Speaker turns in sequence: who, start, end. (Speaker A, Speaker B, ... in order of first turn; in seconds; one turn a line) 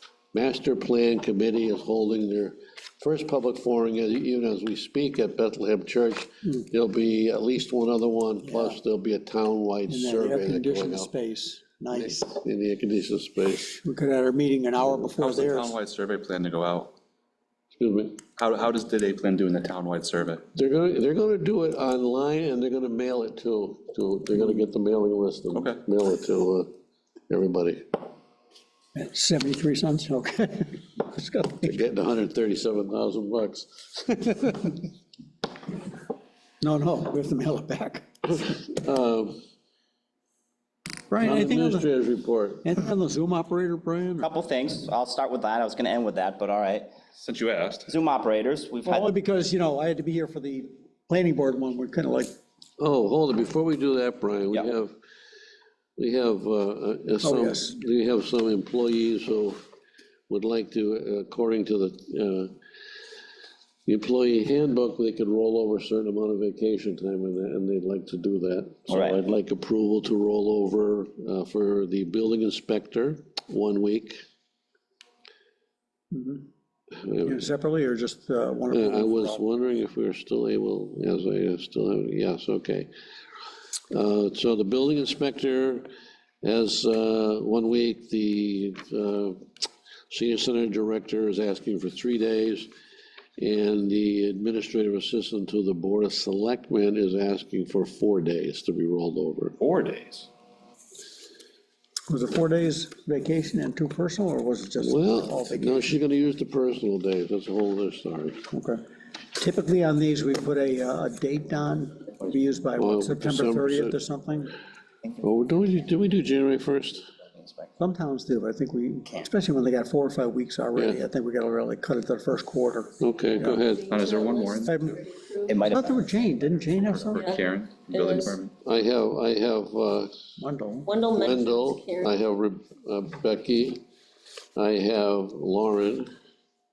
Speaker A: 0.3-11.1
Speaker B: 8.5-8.8
Speaker B: 9.9-12.4
Speaker A: 11.9-13.8
Speaker B: 13.8-15.7
Speaker C: 15.2-16.9
Speaker A: 17.7-18.2
Speaker C: 18.4-20.4
Speaker A: 20.5-26.7
Speaker C: 25.5-25.8
Speaker A: 27.3-27.9
Speaker B: 29.0-31.8
Speaker A: 31.6-34.8
Speaker B: 36.6-38.1
Speaker A: 38.3-39.4
Speaker B: 41.1-41.9
Speaker A: 41.2-42.7
Speaker B: 42.6-44.3
Speaker D: 44.2-46.9
Speaker C: 47.2-47.9
Speaker D: 47.9-49.1
Speaker B: 48.8-52.3
Speaker A: 52.8-54.9
Speaker A: 56.0-59.6
Speaker B: 57.2-57.8
Speaker A: 60.3-62.5
Speaker A: 63.9-74.2
Speaker D: 68.9-69.2
Speaker B: 76.1-76.4
Speaker A: 77.0-77.4
Speaker B: 77.2-79.4
Speaker A: 78.7-82.9
Speaker A: 83.9-85.9
Speaker A: 86.4-89.4
Speaker A: 90.1-92.7
Speaker A: 93.4-99.6
Speaker C: 99.6-100.3
Speaker B: 102.1-105.9
Speaker A: 104.8-108.4
Speaker B: 108.5-108.8
Speaker B: 109.3-114.5
Speaker A: 112.8-114.0
Speaker A: 115.2-117.1
Speaker B: 117.8-123.6
Speaker A: 123.0-123.9
Speaker E: 123.5-125.9
Speaker C: 123.9-124.8
Speaker B: 124.6-125.0
Speaker D: 125.5-126.1
Speaker B: 125.7-127.4
Speaker C: 126.9-128.5
Speaker E: 127.1-128.4
Speaker A: 128.7-130.1
Speaker B: 130.4-130.9
Speaker E: 130.8-132.2
Speaker A: 131.1-133.8
Speaker A: 134.6-136.1